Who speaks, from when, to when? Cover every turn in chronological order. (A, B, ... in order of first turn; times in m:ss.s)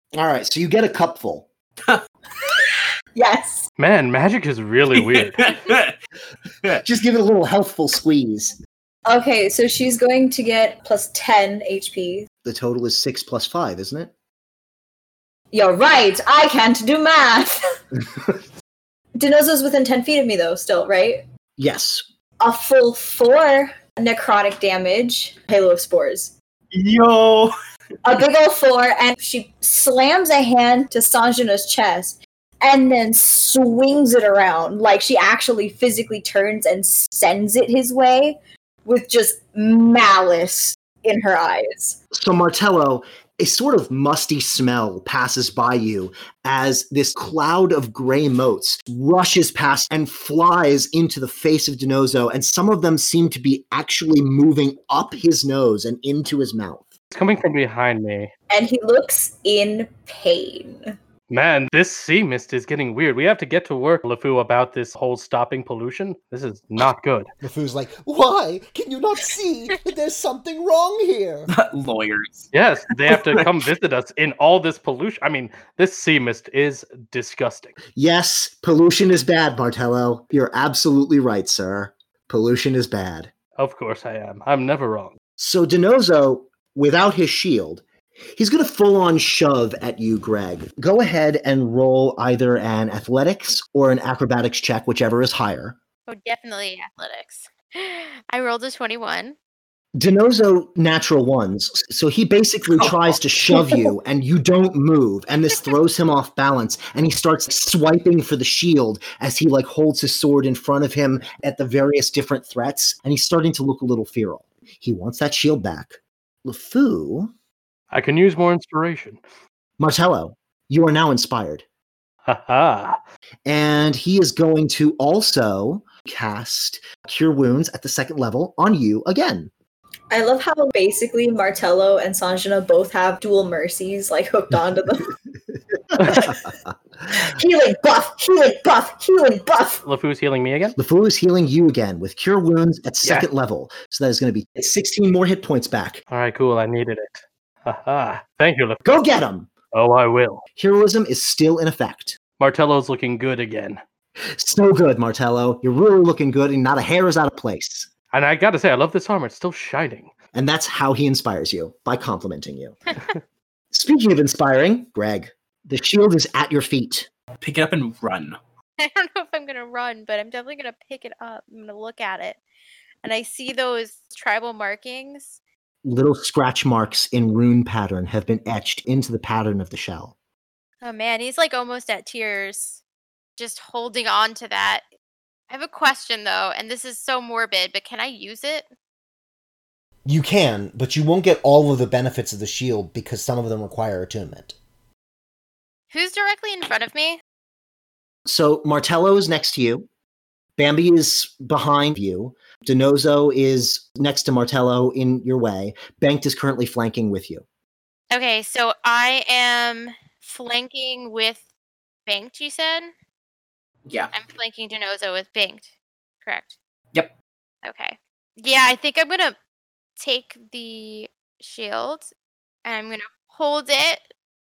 0:00.1-0:01.5 A
0:02.6-0:03.7 B
0:03.8-0:05.6 C
0:04.9-0:06.0 D
0:06.8-0:08.6 A
0:09.1-0:12.3 B
0:12.4-0:14.1 A
0:15.5-0:17.6 B
0:19.2-0:21.2 B
0:21.6-0:22.0 A
0:22.4-0:26.3 B
0:26.7-0:27.5 D
0:28.0-0:42.0 B
0:42.1-0:56.9 A
0:57.1-0:58.3 C
0:58.5-1:00.9 B
1:01.3-1:07.3 C
1:07.4-1:11.5 A
1:11.5-1:13.5 D
1:12.5-1:17.8 C
1:18.0-1:23.3 A
1:23.6-1:25.1 C
1:25.4-1:27.8 A
1:28.4-1:35.8 A
1:36.1-1:39.4 E
1:40.0-1:57.3 A
1:42.7-1:43.2 D
1:57.9-1:59.2 C
1:59.8-2:01.6 A
2:02.3-2:03.0 C
2:03.5-2:09.5 A
2:10.1-2:15.2 B
2:15.9-2:16.5 A
2:16.0-2:16.3 C
2:16.1-2:16.4 B
2:17.1-2:19.8 B
2:19.8-2:20.8 C
2:20.8-2:26.0 A
2:26.1-2:28.8 C
2:28.8-2:29.5 A
2:29.7-2:30.4 C
2:30.6-2:32.2 A
2:32.4-2:33.8 C
2:34.3-2:37.9 A
2:38.1-2:40.1 C
2:40.3-2:42.8 A
2:43.7-2:47.1 A
2:47.4-2:48.4 D
2:48.8-2:52.4 E
2:53.0-2:55.4 E
2:55.8-3:00.2 A
3:00.8-3:02.8 E
3:03.4-3:04.8 E
3:05.5-3:08.7 E
3:10.0-3:14.6 A
3:15.9-3:17.2 E
3:18.3-3:19.9 A
3:20.6-3:27.4 A
3:28.1-3:31.4 E
3:32.1-3:32.9 E
3:33.9-3:34.1 D
3:34.1-3:35.7 E
3:36.2-3:36.6 E
3:37.6-3:39.4 E
3:40.0-3:42.1 E
3:42.6-3:44.1 E